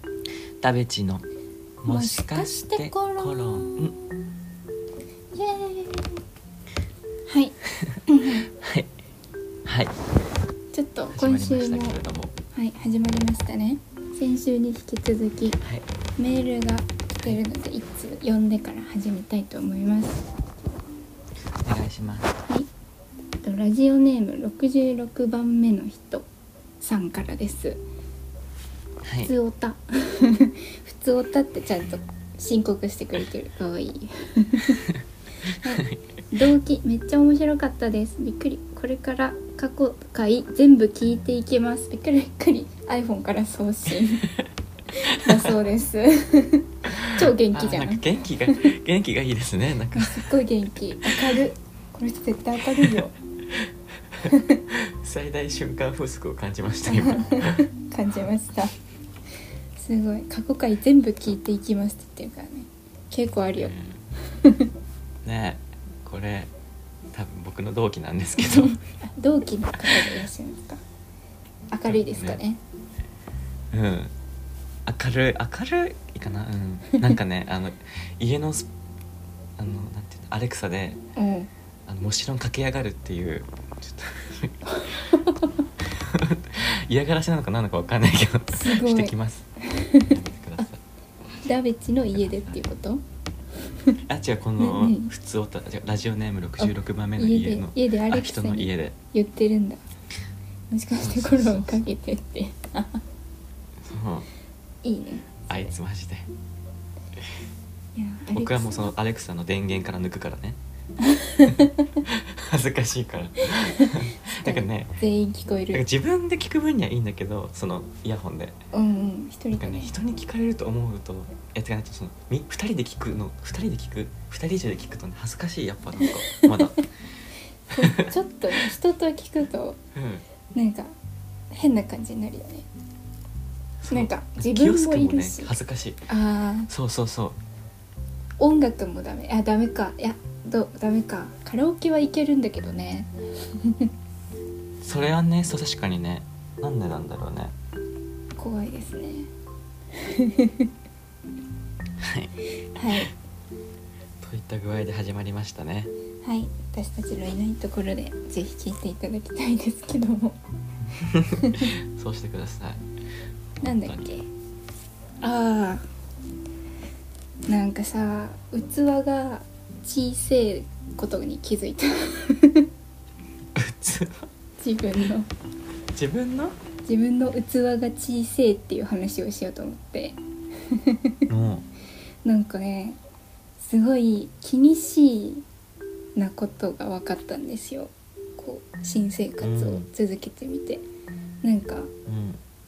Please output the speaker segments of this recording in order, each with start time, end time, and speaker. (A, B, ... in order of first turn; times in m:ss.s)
0:00.6-0:01.2 A
0:01.8-0:03.9 A
0:01.9-0:03.9 B
0:05.3-0:06.2 B
0:07.3-0:07.6 B
0:08.1-0:08.5 B
0:08.5-0:08.9 A
0:09.6-0:09.9 A
0:10.7-0:12.0 B
0:11.1-0:12.3 A
0:12.5-0:15.6 B
0:16.2-0:20.3 B
0:21.6-0:22.4 A
0:23.4-0:26.2 B
0:26.8-0:27.8 B
0:29.0-0:29.3 A
0:29.2-0:34.8 B
0:35.6-0:44.3 B
0:44.9-0:48.7 B
0:46.9-0:50.3 A
0:49.9-0:53.1 B
0:51.0-0:51.4 A
0:52.7-0:53.7 A
0:54.2-0:57.6 A
0:54.2-0:54.6 B
0:56.9-0:58.7 B
0:59.8-1:03.7 B
1:03.6-1:04.0 A
1:04.4-1:04.7 B
1:05.2-1:06.5 A
1:07.1-1:08.8 A
1:08.4-1:10.8 B
1:11.7-1:12.6 B
1:11.8-1:12.4 A
1:13.7-1:14.1 A
1:14.8-1:18.7 A
1:19.6-1:21.0 A
1:21.2-1:21.5 B
1:21.9-1:24.6 A
1:24.6-1:25.6 B
1:25.8-1:29.4 A
1:28.5-1:29.1 B
1:29.6-1:30.7 B
1:30.1-1:30.8 A
1:31.4-1:33.0 B
1:32.1-1:32.6 A
1:34.1-1:38.9 A
1:34.6-1:35.1 B
1:36.6-1:39.8 B
1:40.7-1:43.0 B
1:41.0-1:41.8 A
1:43.8-1:44.3 A
1:44.8-1:45.7 B
1:45.5-1:46.3 A
1:47.9-1:48.9 B
1:48.3-1:50.6 A
1:51.0-1:51.9 B
1:52.0-1:55.0 A
1:53.5-1:55.8 B
1:55.7-1:58.6 A
1:58.7-2:00.0 B
1:59.5-2:06.8 A
2:06.0-2:06.7 B
2:07.7-2:09.8 B
2:07.8-2:08.6 A
2:09.9-2:10.2 A
2:10.5-2:10.9 B
2:11.5-2:12.6 B
2:13.8-2:16.0 A
2:13.9-2:15.5 B
2:16.1-2:16.7 B
2:16.7-2:17.4 A
2:18.4-2:23.9 B
2:24.8-2:27.5 A
2:28.4-2:29.3 B
2:30.0-2:30.7 B
2:32.0-2:32.3 A
2:32.7-2:33.1 B
2:34.2-2:35.9 A
2:36.2-2:40.4 B
2:40.9-2:42.8 A
2:43.6-2:44.2 A
2:43.6-2:44.2 B
2:45.2-2:45.8 B
2:47.5-2:52.7 B
2:53.6-2:54.3 A
2:54.6-2:55.3 B
2:55.9-2:56.6 A
2:56.8-3:00.2 B
3:00.7-3:01.1 B
3:01.3-3:01.6 A
3:02.2-3:03.0 B
3:03.6-3:05.4 B
3:06.2-3:10.8 B
3:09.4-3:09.9 A
3:11.4-3:11.9 B
3:12.1-3:12.4 A